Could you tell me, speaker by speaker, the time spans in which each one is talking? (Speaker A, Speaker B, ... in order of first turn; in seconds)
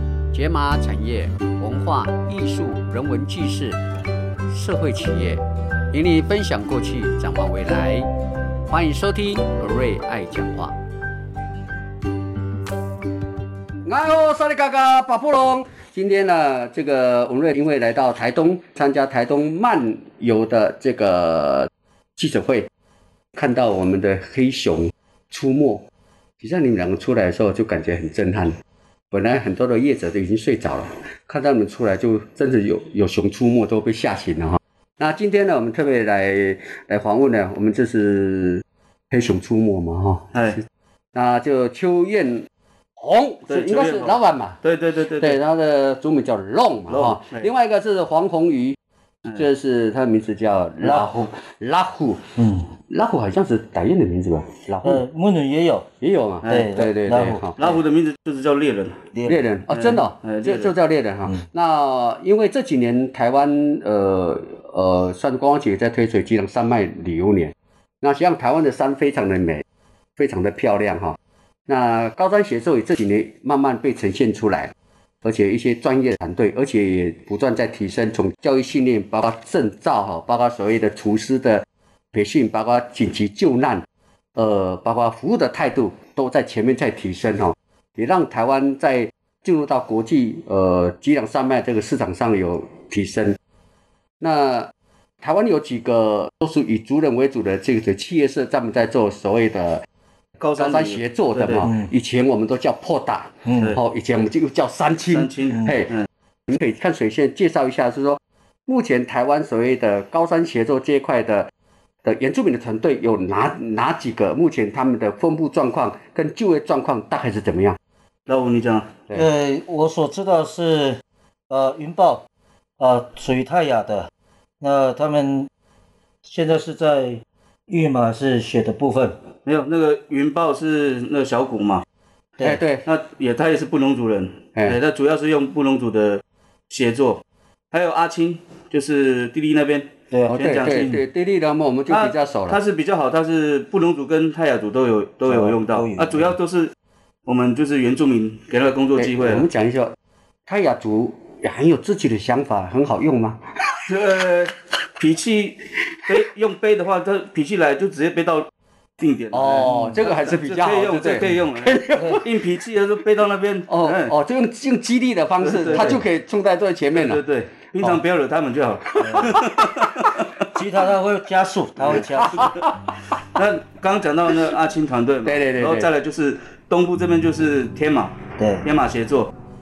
Speaker A: 0.3-3.8, 4.5-8.1, 8.7-10.8, 13.8-22.7, 23.4-25.8, 26.4-28.6, 29.1-40.4, 41.1-42.5, 43.0-44.6, 45.2-48.8, 49.4-52.2, 52.9-55.0, 56.0-57.6, 59.3-69.6, 70.2-83.8, 84.4-93.4, 94.2-94.7, 95.2-99.9, 100.6-105.9, 106.5-111.5, 112.0-117.8, 132.4-132.9, 140.3-142.6, 149.0-149.9, 150.5-153.4, 159.3-162.3, 163.7-167.2, 169.0-169.7, 172.2-172.7, 175.2-175.9
Speaker B: 40.3-40.6, 43.5-45.4, 46.9-47.5, 56.4-56.7, 57.6-59.0, 59.7-60.7, 100.4-101.7, 105.1-106.1, 118.3-118.9, 129.4-131.8, 132.9-140.9, 141.9-146.7, 147.3-149.5, 153.9-158.5, 159.0-164.1, 165.4-166.0, 166.9-170.3, 171.8-172.6, 173.2-179.3
Speaker C: 50.8-51.1, 52.4-52.7, 54.8-55.9, 56.5-57.5, 103.5-103.8, 119.1-122.2, 122.8-124.1, 124.6-125.5, 126.2-129.1, 140.1-141.0, 145.3-146.3, 162.0-162.2, 165.7-166.0, 169.0-169.3, 170.5-172.5, 178.4-178.7